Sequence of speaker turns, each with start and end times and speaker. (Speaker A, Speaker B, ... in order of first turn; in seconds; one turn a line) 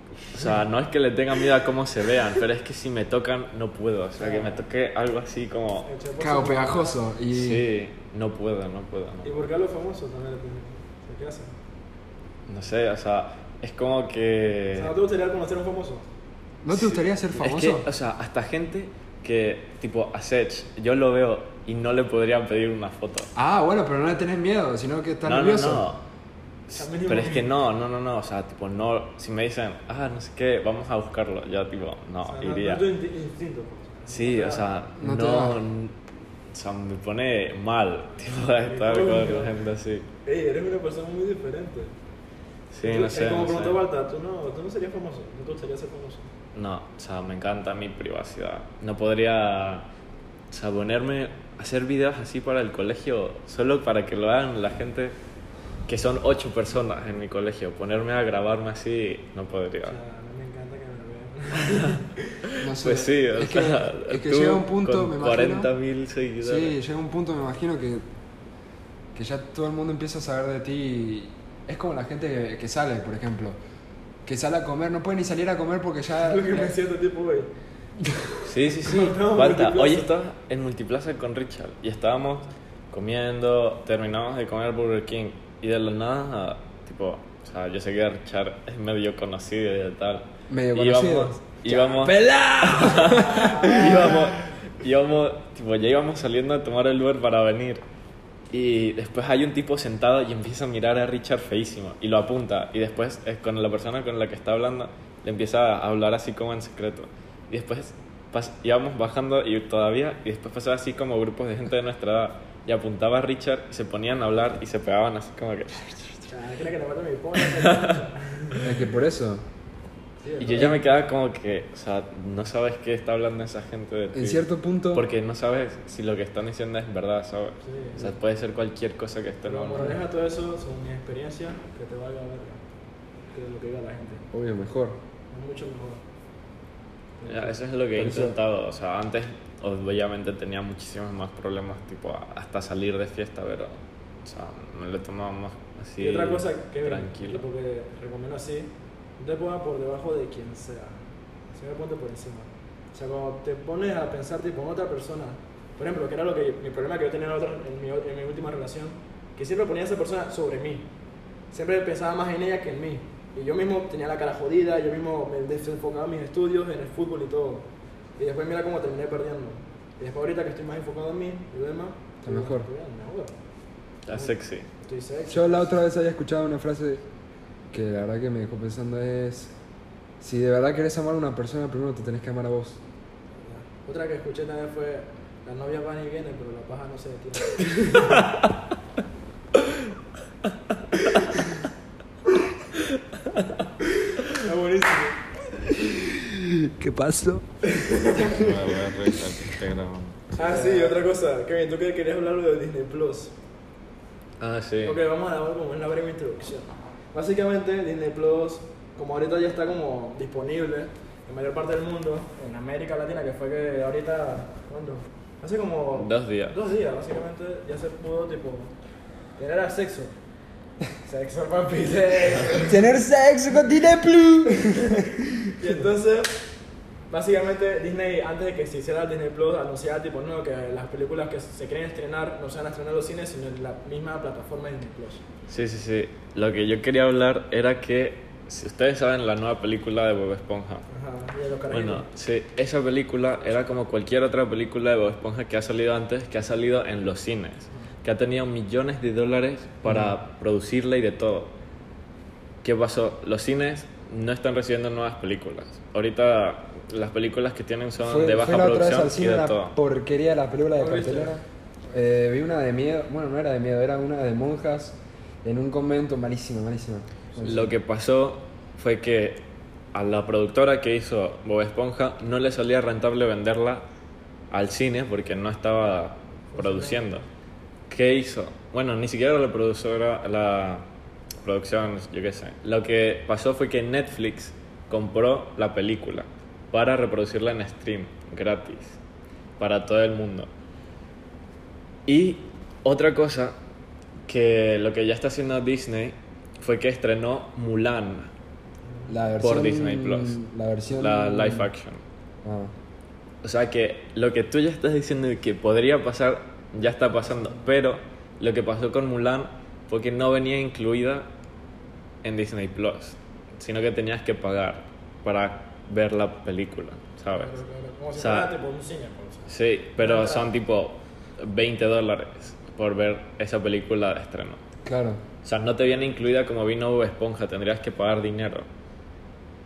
Speaker A: 0.3-5.9
Speaker B: 4.2-4.6
Speaker B: 5.8-7.0
Speaker C: 6.2-7.7
Speaker A: 7.3-9.4
Speaker B: 9.2-11.5
Speaker A: 12.5-14.9
Speaker B: 14.7-16.1
Speaker C: 16.6-17.9
Speaker A: 16.7-23.3
Speaker C: 23.4-25.9
Speaker A: 25.2-26.0
Speaker A: 26.7-32.9
Speaker B: 26.7-27.5
Speaker B: 32.2-34.6
Speaker A: 34.1-35.9
Speaker C: 35.0-35.6
Speaker A: 36.5-40.1
Speaker B: 38.6-39.5
Speaker B: 40.2-41.9
Speaker A: 42.7-43.8
Speaker B: 42.8-46.2
Speaker A: 46.5-49.9
Speaker A: 50.5-55.1
Speaker A: 55.9-60.0
Speaker B: 59.8-62.5
Speaker A: 62.5-66.8
Speaker C: 62.6-65.7
Speaker C: 66.4-68.0
Speaker C: 69.1-73.6
Speaker C: 74.2-76.7
Speaker B: 76.2-77.5
Speaker A: 78.4-97.8
Speaker B: 78.8-80.1
Speaker C: 90.5-94.3
Speaker B: 93.1-94.2
Speaker A: 98.5-116.3
Speaker B: 116.3-118.7
Speaker A: 117.5-117.9
Speaker C: 118.6-119.4
Speaker B: 120.2-120.8
Speaker A: 120.4-129.9
Speaker C: 124.1-125.1
Speaker B: 127.6-128.1
Speaker B: 129.4-132.6
Speaker B: 133.3-134.3
Speaker C: 134.3-135.0
Speaker B: 135.3-136.0
Speaker B: 137.2-137.6
Speaker A: 137.3-147.4
Speaker C: 137.9-138.3
Speaker B: 146.0-160.9
Speaker B: 161.5-173.3
Speaker C: 172.2-172.7
Speaker A: 174.1-174.7
Speaker B: 174.1-175.7
Speaker C: 175.3-177.1
Speaker C: 177.7-179.5
Speaker C: 180.2-182.8
Speaker B: 183.4-188.3
Speaker B: 194.0-195.2
Speaker C: 195.7-197.7
Speaker B: 197.6-198.5
Speaker A: 198.1-200.3
Speaker B: 200.3-203.3
Speaker C: 200.4-201.0
Speaker A: 204.4-205.0
Speaker B: 204.8-218.7
Speaker A: 215.9-216.5
Speaker B: 219.4-220.1
Speaker B: 221.0-222.9
Speaker C: 222.7-225.8
Speaker B: 225.0-226.3
Speaker B: 227.1-235.2
Speaker A: 235.5-240.8
Speaker B: 240.9-242.1
Speaker A: 241.7-251.5
Speaker C: 249.8-250.1
Speaker A: 252.6-259.8
Speaker C: 258.0-267.7
Speaker B: 260.8-261.4
Speaker A: 267.4-273.9
Speaker A: 274.5-277.2
Speaker B: 276.5-277.2
Speaker A: 277.9-280.9
Speaker A: 281.4-289.0
Speaker A: 289.6-290.5
Speaker A: 292.1-293.6
Speaker A: 294.3-298.3
Speaker C: 299.1-301.7
Speaker A: 299.4-300.4
Speaker A: 300.9-302.0
Speaker C: 302.4-302.7
Speaker A: 303.4-311.3
Speaker B: 307.3-307.6
Speaker A: 312.2-317.6
Speaker B: 317.3-320.5
Speaker A: 318.2-318.5
Speaker A: 319.5-324.6
Speaker C: 324.8-325.2
Speaker A: 325.4-328.7